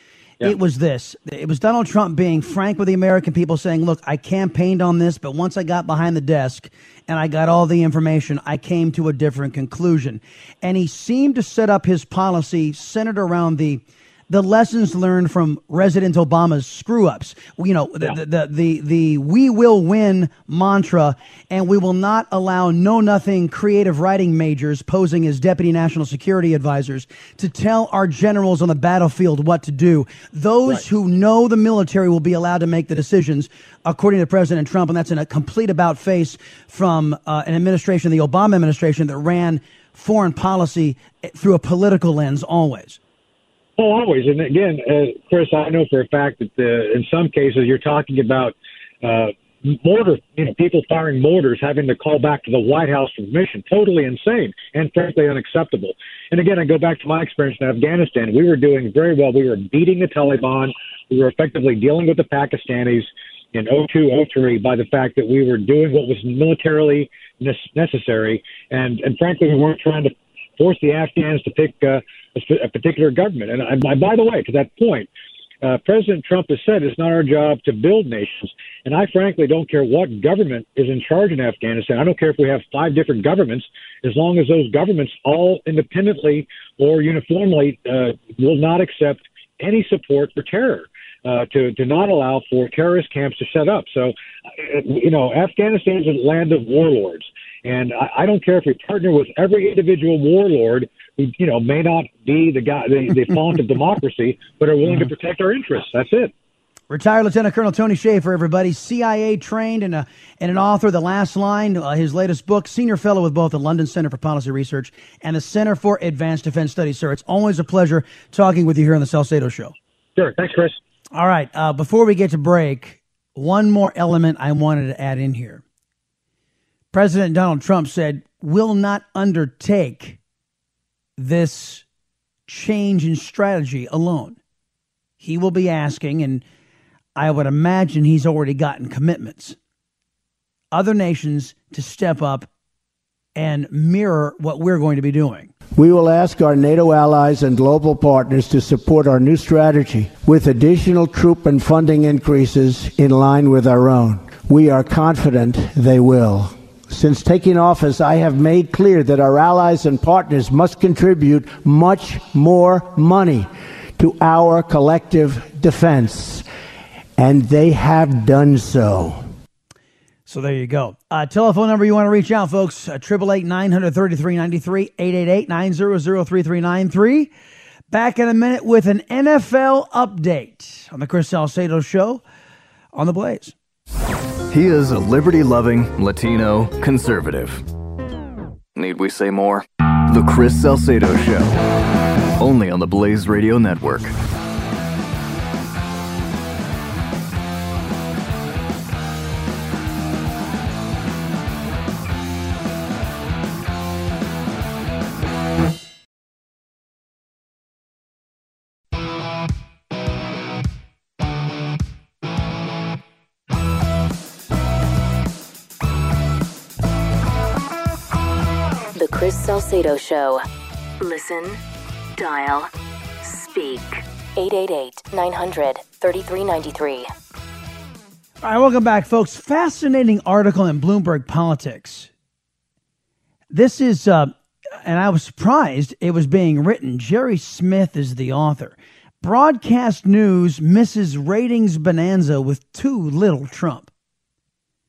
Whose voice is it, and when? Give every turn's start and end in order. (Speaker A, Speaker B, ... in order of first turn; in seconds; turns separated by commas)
Speaker A: 0.4-43.0, Speaker B: 43.8-75.1, Speaker B: 75.6-106.3, Speaker A: 106.9-119.7, Speaker B: 120.2-120.8, Speaker A: 121.1-125.6, Speaker A: 126.9-130.2, Speaker A: 131.2-131.8, Speaker A: 132.5-134.4, Speaker A: 135.2-136.4, Speaker A: 137.2-139.6, Speaker A: 140.7-142.5, Speaker A: 143.3-145.5, Speaker C: 145.8-166.4, Speaker C: 167.2-169.2, Speaker A: 170.3-177.3, Speaker A: 177.9-182.2, Speaker A: 182.9-183.5, Speaker D: 184.5-187.6, Speaker D: 188.7-191.6, Speaker D: 192.4-194.1, Speaker E: 218.9-220.4, Speaker E: 221.0-221.6, Speaker E: 222.2-222.7, Speaker E: 223.2-227.1, Speaker A: 228.4-232.1, Speaker A: 233.5-243.9